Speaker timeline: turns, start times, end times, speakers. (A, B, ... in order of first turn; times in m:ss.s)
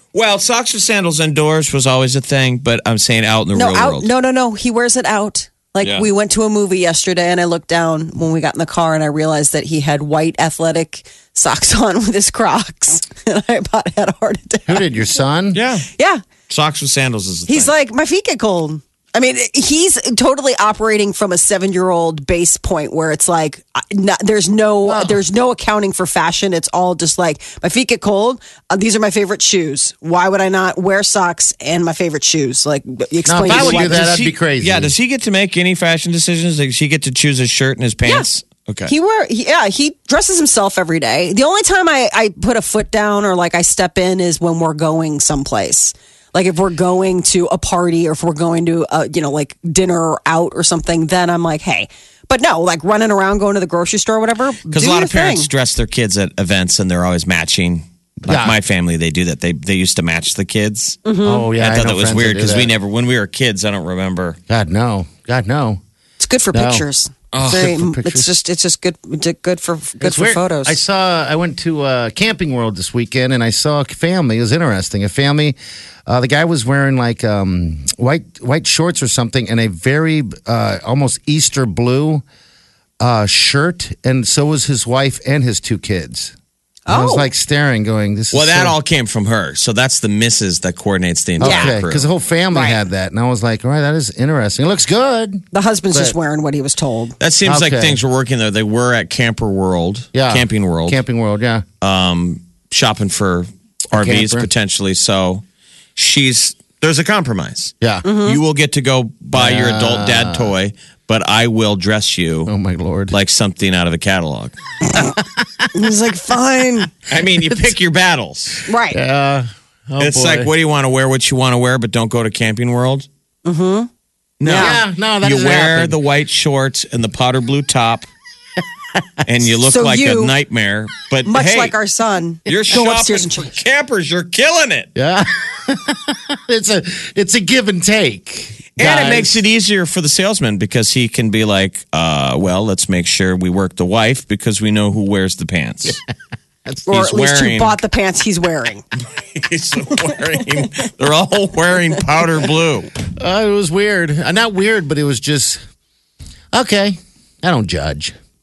0:00.1-0:04.1 A
0:03.5-0:14.9 B
0:05.8-0:06.1 A
0:14.7-0:15.6 C
0:15.5-0:15.9 A
0:16.0-0:16.2 B
0:16.5-0:17.7 A
0:17.5-0:34.0 B
0:24.9-0:25.2 C
0:33.3-0:34.9 C
0:33.5-0:38.9 A
0:38.9-0:55.5 B
0:54.7-1:01.0 A
0:58.2-0:58.6 C
1:01.0-1:01.5 B
1:01.2-1:02.7 C
1:01.6-1:04.4 A
1:04.5-1:05.8 C
1:06.2-1:10.8 B
1:06.5-1:08.3 C
1:07.3-1:07.6 A
1:10.0-1:22.2 C
1:23.0-1:26.3 C
1:26.9-1:27.3 B
1:26.9-1:28.8 C
1:28.3-1:32.1 A
1:31.4-1:36.2 C
1:31.4-1:31.7 B
1:32.5-1:32.8 B
1:35.5-1:37.2 B
1:37.2-1:41.0 A
1:37.4-1:38.0 C
1:40.1-1:41.6 C
1:41.8-1:45.4 A
1:43.9-1:44.5 C
1:46.0-1:52.5 A
1:48.0-1:48.4 B
1:49.4-1:50.5 C
1:52.5-1:53.2 C
1:53.1-1:54.5 A
1:55.0-1:55.7 C
1:55.7-1:56.9 B
1:57.1-1:58.7 A
1:58.7-1:59.0 B
1:58.9-2:00.5 C
2:00.0-2:03.1 A
2:03.4-2:03.9 B
2:04.4-2:08.1 A
2:04.4-2:04.8 B
2:04.5-2:06.0 C
2:09.0-2:09.3 C
2:09.2-2:11.7 A
2:09.6-2:10.3 B
2:11.3-2:13.6 B
2:12.5-2:14.9 A
2:15.0-2:19.4 C
2:18.8-2:26.0 A
2:26.9-2:28.8 B
2:26.9-2:27.8 A
2:29.3-2:32.9 A
2:33.2-2:35.6 C
2:36.5-2:38.2 C